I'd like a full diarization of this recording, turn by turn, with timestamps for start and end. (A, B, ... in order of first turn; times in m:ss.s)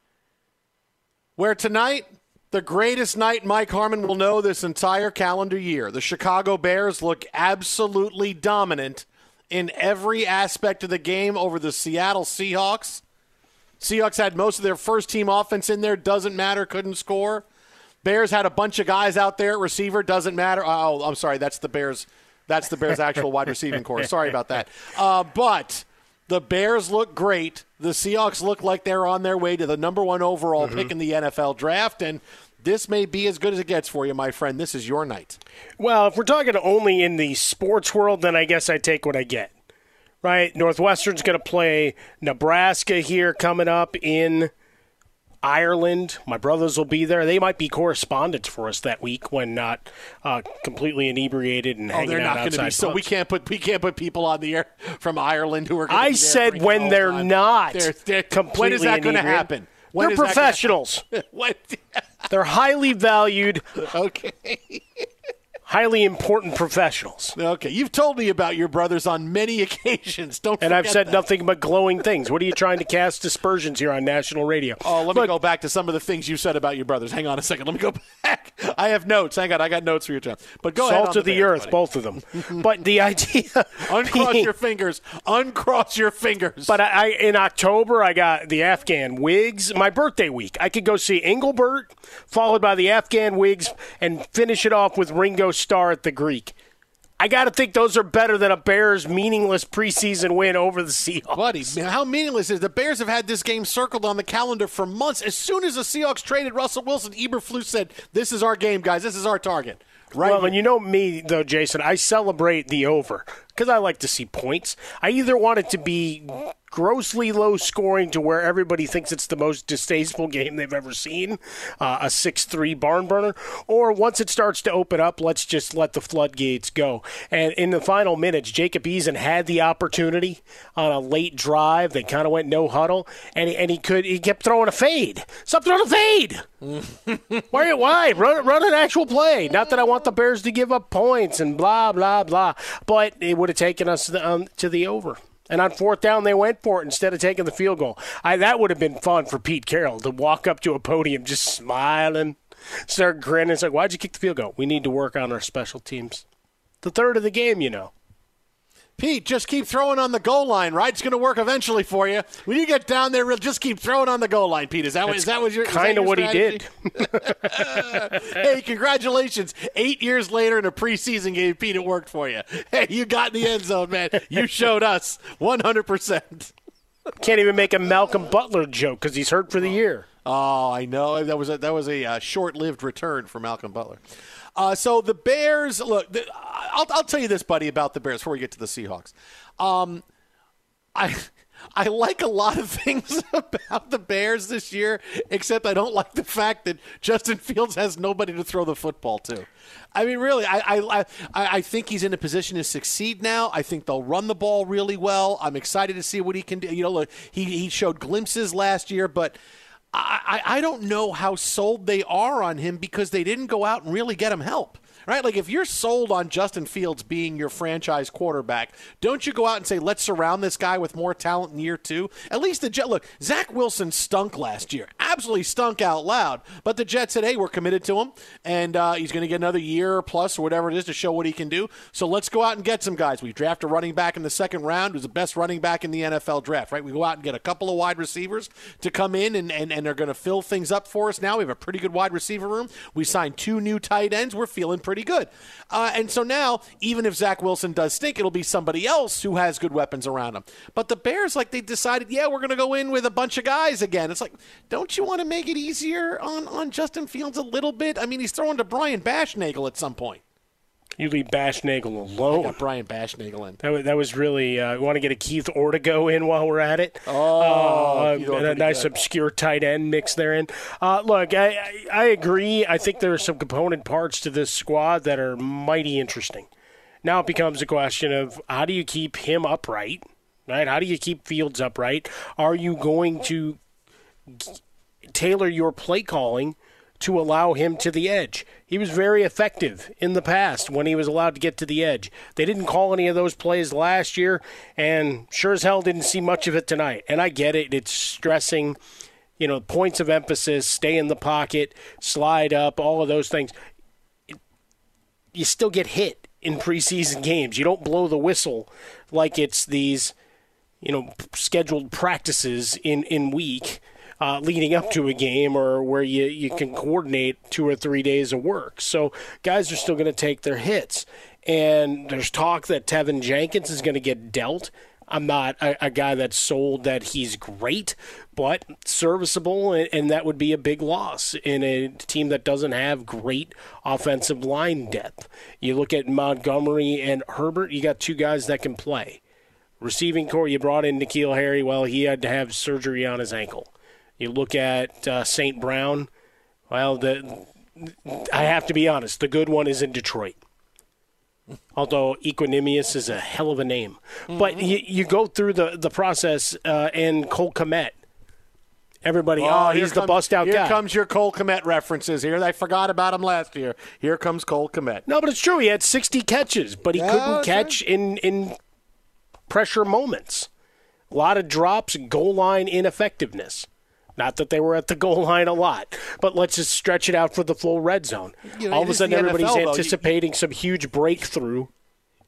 0:01.4-0:13.0 A
0:13.8-0:17.4 A
0:18.0-0:35.4 A
0:30.6-0:30.9 B
0:35.8-0:39.5 B
0:40.2-0:44.5 B
0:45.4-0:53.0 B
0:51.9-1:02.0 A
0:55.9-1:01.0 B
1:02.3-1:03.7 B
1:03.8-1:05.0 A
1:05.7-1:07.4 B
1:07.4-1:11.2 A
1:10.6-1:15.3 B
1:14.8-1:21.8 A
1:20.8-1:24.5 B
1:22.3-1:22.6 A
1:23.8-1:26.8 A
1:26.7-1:36.6 B
1:37.2-1:41.8 B
1:41.4-1:50.6 A
1:50.2-2:16.4 B
2:16.7-2:17.5 A
2:17.5-2:32.4 B
2:32.9-2:36.2 B
2:36.8-2:37.9 B
2:39.0-2:56.5 A
2:45.1-2:48.2 B
2:57.2-3:00.1 B
3:00.2-3:04.0 A
3:04.6-3:10.0 A
3:11.0-3:29.4 A
3:29.9-4:20.2 A
4:21.0-4:22.6 B
4:22.3-4:23.6 A
4:23.6-4:36.5 B
4:27.1-4:28.9 A
4:37.0-4:43.6 B
4:44.3-4:44.6 B
4:45.1-4:58.8 B
4:59.4-5:03.5 B
5:05.3-5:10.2 B
5:10.8-5:39.2 B
5:39.8-5:46.1 B
5:46.7-5:50.4 B
5:51.8-5:58.0 B
5:54.3-5:54.6 A
5:59.0-6:00.8 B
5:59.4-6:05.0 A
6:05.1-6:08.6 B
6:06.9-6:07.8 A
6:09.5-6:10.5 B
6:11.1-6:21.7 B
6:18.5-6:20.0 A